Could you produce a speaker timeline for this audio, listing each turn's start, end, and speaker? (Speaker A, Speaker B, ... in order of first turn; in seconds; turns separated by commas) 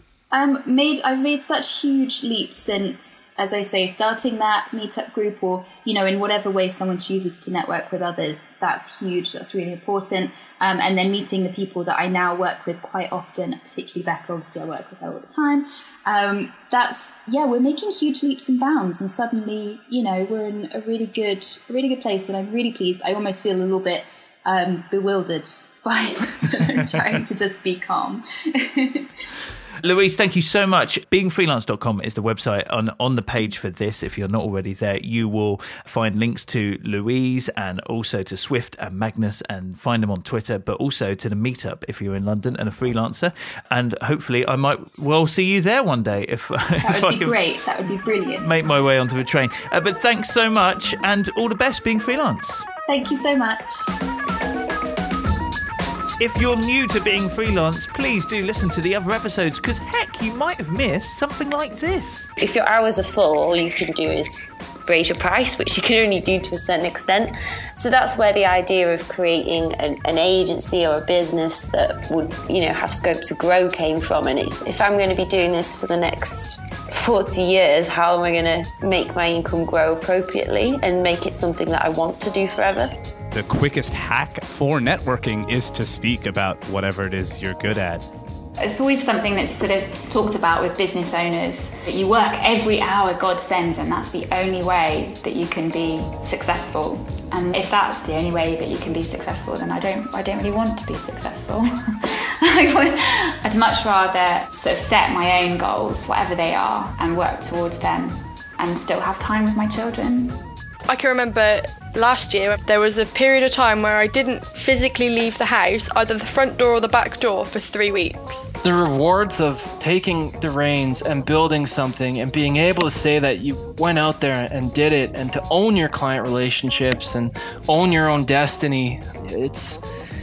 Speaker A: 0.3-29.1, Speaker B: 29.8-47.4, Speaker A: 46.8-48.5, Speaker B: 48.4-52.7, Speaker A: 52.9-53.9, Speaker B: 56.2-62.3, Speaker C: 62.4-83.0, Speaker D: 83.3-88.0, Speaker E: 88.6-110.4, Speaker F: 110.9-118.5, Speaker G: 118.6-129.8